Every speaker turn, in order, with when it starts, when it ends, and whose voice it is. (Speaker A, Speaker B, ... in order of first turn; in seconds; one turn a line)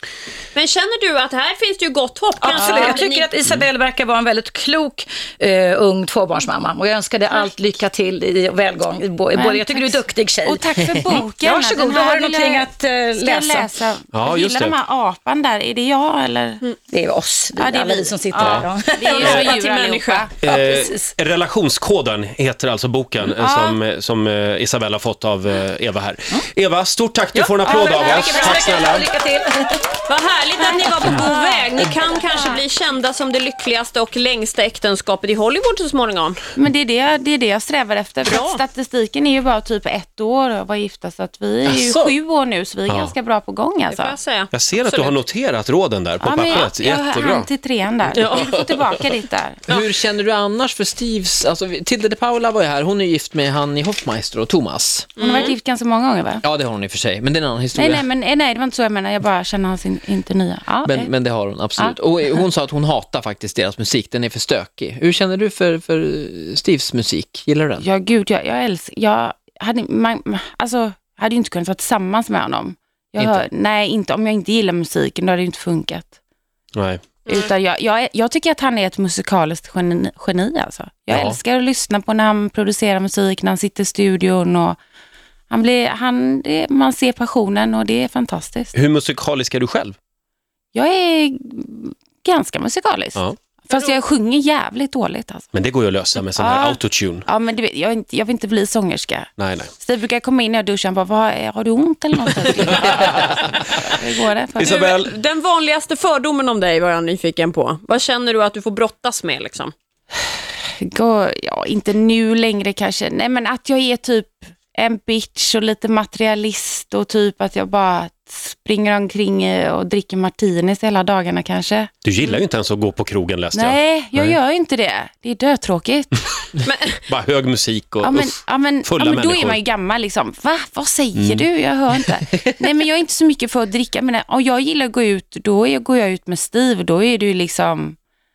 Speaker A: 0.5-3.3
Speaker B: 2.4-13.7
Speaker C: 2.5-3.0
Speaker C: 9.3-16.7
Speaker D: 14.1-14.7
Speaker B: 16.9-19.4
Speaker C: 17.6-20.3
Speaker D: 18.4-18.7
Speaker A: 19.0-20.3
Speaker D: 20.4-29.1
Speaker B: 20.4-21.0
Speaker C: 23.4-23.8
Speaker A: 27.3-28.8
Speaker B: 27.6-29.9
Speaker A: 30.1-36.4
Speaker C: 36.5-44.2
Speaker A: 38.2-38.6
Speaker E: 41.7-42.1
Speaker D: 42.9-43.1
Speaker A: 43.9-45.2
Speaker D: 44.5-47.5
Speaker C: 46.2-49.6
Speaker D: 48.1-48.9
Speaker A: 48.1-48.5
Speaker E: 49.7-55.2
Speaker A: 55.2-55.5
Speaker C: 55.2-56.4
Speaker E: 56.4-58.0
Speaker C: 57.7-61.1
Speaker E: 60.8-67.8
Speaker C: 67.8-76.1
Speaker E: 73.2-73.5
Speaker D: 76.8-77.0
Speaker C: 77.3-84.8
Speaker D: 81.1-81.4
Speaker C: 85.5-88.7
Speaker D: 88.7-90.0
Speaker C: 90.7-95.5
Speaker D: 95.5-97.2
Speaker C: 96.3-104.8
Speaker D: 99.4-99.7
Speaker D: 102.9-103.5
Speaker D: 104.6-105.1
Speaker A: 104.6-109.7
Speaker C: 110.8-121.9
Speaker D: 122.0-124.4
Speaker C: 123.5-126.1
Speaker A: 126.6-127.0
Speaker D: 127.0-129.6
Speaker C: 128.0-138.0
Speaker D: 131.1-131.5